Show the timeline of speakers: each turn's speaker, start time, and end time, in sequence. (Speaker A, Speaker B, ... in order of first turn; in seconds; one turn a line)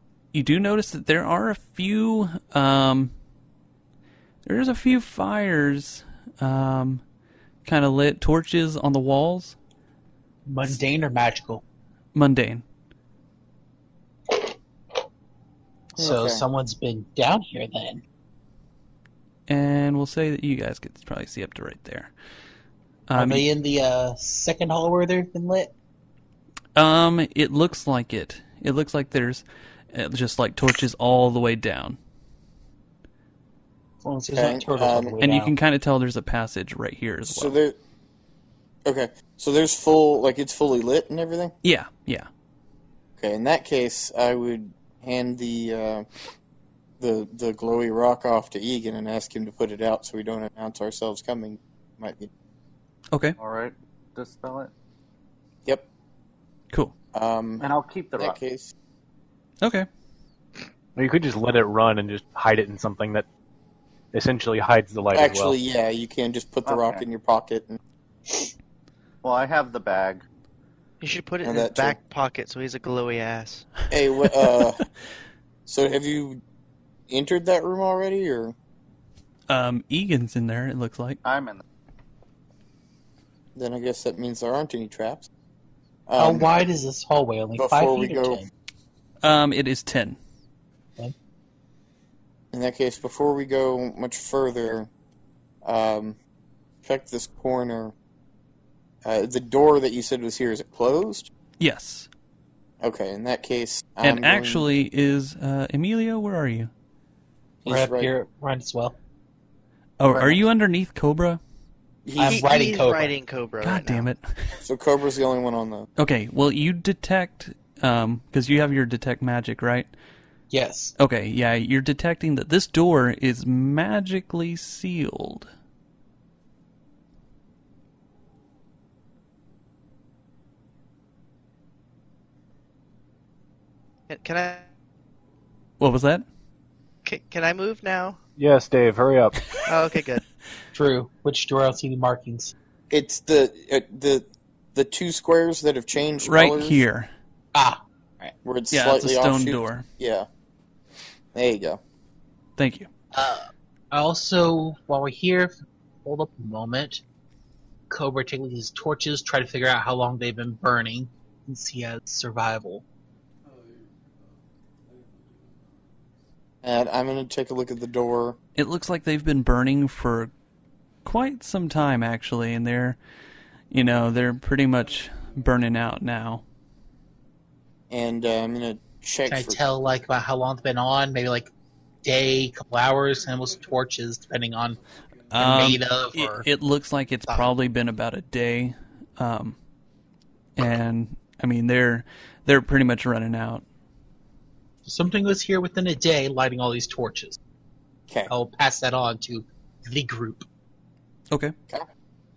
Speaker A: 0.3-3.1
Speaker A: 4.4-7.0
Speaker A: 7.6-9.6
Speaker B: 10.5-11.6
Speaker A: 12.1-12.6
Speaker B: 15.9-18.0
Speaker C: 16.0-16.4
Speaker A: 19.5-22.1
Speaker A: 23.1-23.5
Speaker B: 23.1-25.7
Speaker A: 26.8-32.0
Speaker B: 34.0-35.5
Speaker C: 34.3-35.2
Speaker A: 35.2-37.6
Speaker C: 37.2-37.8
Speaker C: 38.8-41.5
Speaker A: 41.6-42.3
Speaker C: 43.2-46.1
Speaker C: 47.0-52.3
Speaker A: 53.1-53.4
Speaker D: 53.4-54.7
Speaker C: 57.1-58.7
Speaker D: 57.6-58.4
Speaker A: 59.6-59.9
Speaker E: 61.0-63.2
Speaker E: 64.1-65.5
Speaker C: 65.1-67.8
Speaker D: 66.7-67.0
Speaker D: 69.2-70.2
Speaker F: 71.0-73.7
Speaker C: 71.4-72.0
Speaker C: 73.9-74.8
Speaker C: 75.7-76.4
Speaker C: 77.1-78.5
Speaker A: 79.5-81.2
Speaker D: 81.2-81.6
Speaker C: 83.5-85.3
Speaker C: 86.1-86.5
Speaker B: 86.2-88.5
Speaker C: 87.5-88.4
Speaker A: 89.2-90.2
Speaker C: 92.5-94.9
Speaker C: 95.6-96.2
Speaker C: 96.8-97.9
Speaker C: 99.0-101.3
Speaker A: 101.6-102.1
Speaker C: 102.8-104.7
Speaker A: 104.0-106.7
Speaker C: 107.6-108.1
Speaker B: 107.7-109.0
Speaker A: 110.0-111.4
Speaker D: 110.1-110.4
Speaker C: 112.0-112.5
Speaker B: 112.2-113.1
Speaker F: 112.2-114.0
Speaker A: 113.6-114.5
Speaker C: 114.6-115.9
Speaker A: 116.0-119.9
Speaker B: 120.5-120.9
Speaker A: 121.0-125.5
Speaker F: 134.1-134.7
Speaker A: 135.8-136.2
Speaker F: 137.0-138.2
Speaker E: 138.4-139.5
Speaker F: 139.6-140.2
Speaker B: 140.7-142.5
Speaker C: 142.9-146.8
Speaker A: 146.2-147.1
Speaker B: 147.5-148.3
Speaker C: 148.4-150.3
Speaker A: 148.7-149.8
Speaker C: 151.3-151.8
Speaker A: 152.6-152.9
Speaker B: 153.1-157.0
Speaker B: 157.9-162.8
Speaker C: 166.6-168.4
Speaker A: 168.6-170.3
Speaker A: 171.0-173.0
Speaker A: 173.7-176.4
Speaker C: 177.9-179.6
Speaker B: 179.2-181.5
Speaker B: 182.0-184.8
Speaker A: 185.3-189.6
Speaker B: 185.4-186.4
Speaker A: 190.6-193.6
Speaker B: 194.8-197.4
Speaker B: 198.3-200.4